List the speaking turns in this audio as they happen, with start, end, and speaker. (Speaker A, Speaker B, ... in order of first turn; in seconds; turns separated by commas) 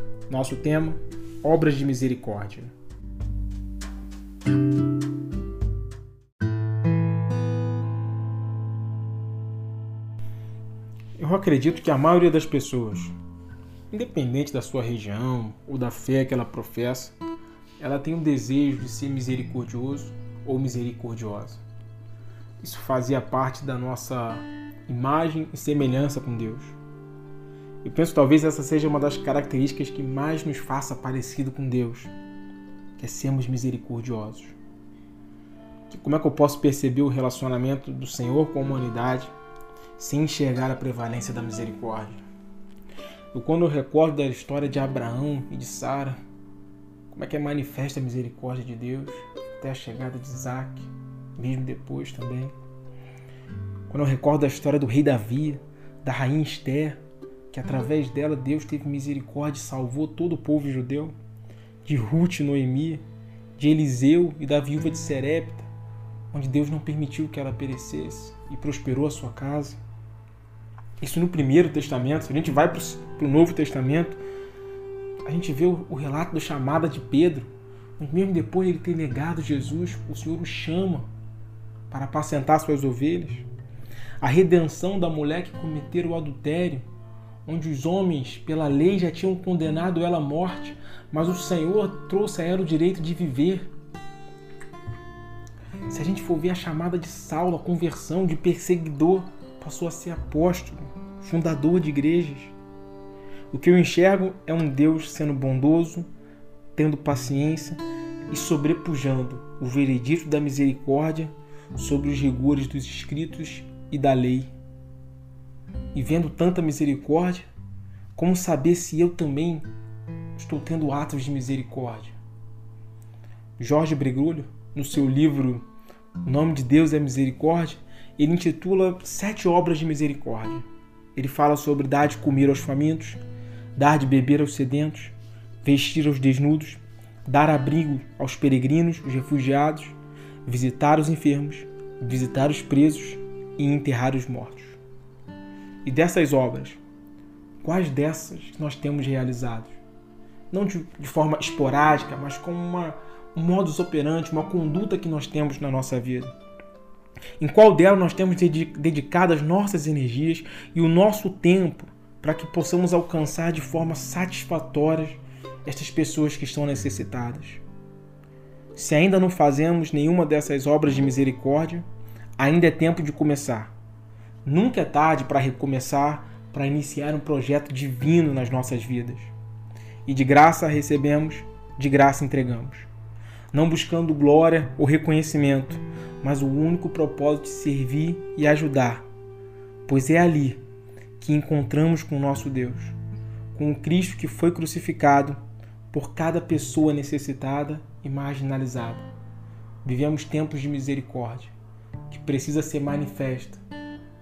Speaker A: 0.3-2.7, Speaker A: 11.2-13.1, Speaker A: 13.9-17.2, Speaker A: 17.8-21.6, Speaker A: 22.6-26.8, Speaker A: 27.8-32.1, Speaker A: 33.0-34.5, Speaker A: 35.9-39.3, Speaker A: 40.0-42.2, Speaker A: 43.3-46.2, Speaker A: 47.1-52.5, Speaker A: 53.9-61.2, Speaker A: 61.8-63.0, Speaker A: 63.6-65.7, Speaker A: 66.3-69.8, Speaker A: 71.0-74.2, Speaker A: 75.2-81.1, Speaker A: 81.9-83.5, Speaker A: 84.2-86.8, Speaker A: 87.5-93.7, Speaker A: 95.9-102.5, Speaker A: 103.5-106.1, Speaker A: 106.8-114.5, Speaker A: 115.9-117.5, Speaker A: 118.2-119.7, Speaker A: 120.4-122.2, Speaker A: 123.6-125.7, Speaker A: 126.2-133.2, Speaker A: 133.8-144.8, Speaker A: 145.8-146.8, Speaker A: 147.6-149.8, Speaker A: 150.5-156.3, Speaker A: 157.4-167.6, Speaker A: 168.8-171.9, Speaker A: 172.4-173.7, Speaker A: 174.4-179.3, Speaker A: 180.1-182.9, Speaker A: 183.5-189.1, Speaker A: 189.9-190.6, Speaker A: 191.2-193.0, Speaker A: 193.5-195.4, Speaker A: 195.9-199.1, Speaker A: 199.8-201.5, Speaker A: 202.1-203.6